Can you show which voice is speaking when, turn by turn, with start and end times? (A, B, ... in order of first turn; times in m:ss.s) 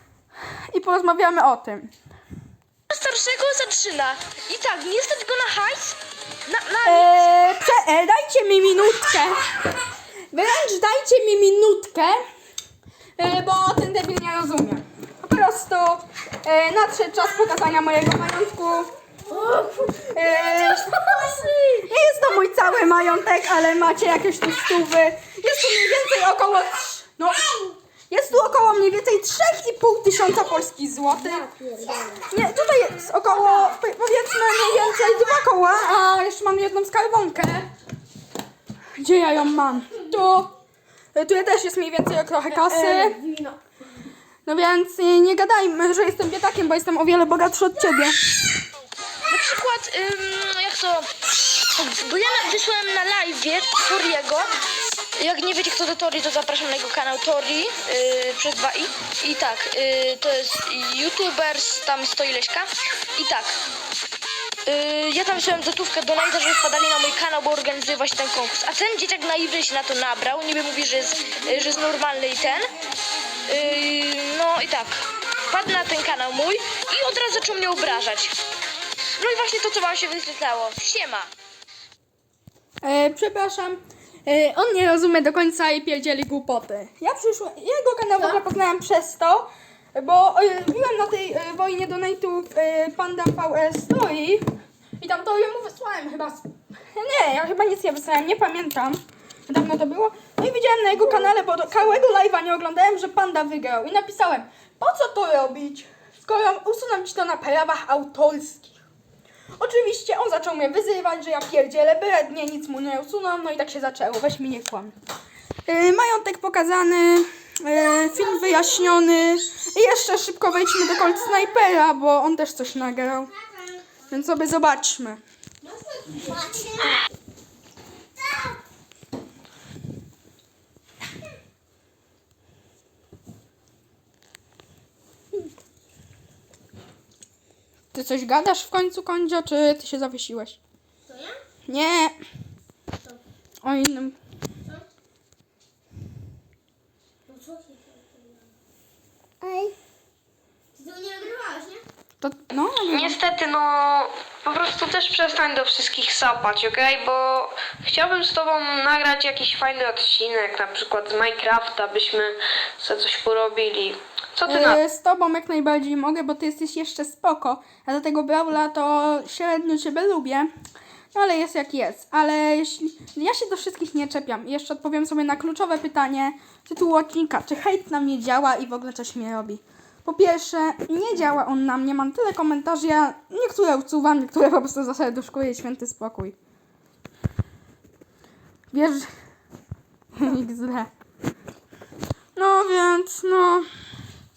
0:00.7-0:01.9 A
0:02.9-0:07.3 B
0:06.8-0:09.4 A
0:10.3-0:12.2 A
0:13.2-0:18.9 A
0:20.0-0:31.5 A
0:31.2-0:32.3 C
0:32.3-0:37.7 A
0:39.0-0:40.5 A
0:41.1-0:43.2 A
0:44.4-0:48.2 A
0:49.2-0:51.1 B
0:51.7-0:54.5 B
0:55.2-1:03.6 B
1:04.6-1:12.7 B
1:13.5-1:18.3 B
1:19.2-1:21.3 B
1:22.8-1:34.4 A
1:35.0-1:48.7 A
1:49.6-1:54.9 A
1:55.7-2:03.3 A
2:04.1-2:05.2 A
2:06.0-2:07.0 C
2:08.2-2:08.6 C
2:17.9-2:20.6 A
2:21.1-2:21.4 C
2:21.7-2:22.1 A
2:23.6-2:24.2 A
2:27.3-2:28.4 C
2:29.4-2:29.8 C
2:30.8-2:31.8 C
2:32.2-2:33.2 A
2:32.9-2:44.8 D
2:44.4-2:50.5 A
2:51.1-3:06.4 A
3:08.7-3:09.1 A
3:10.2-3:10.9 A
3:12.3-3:13.7 A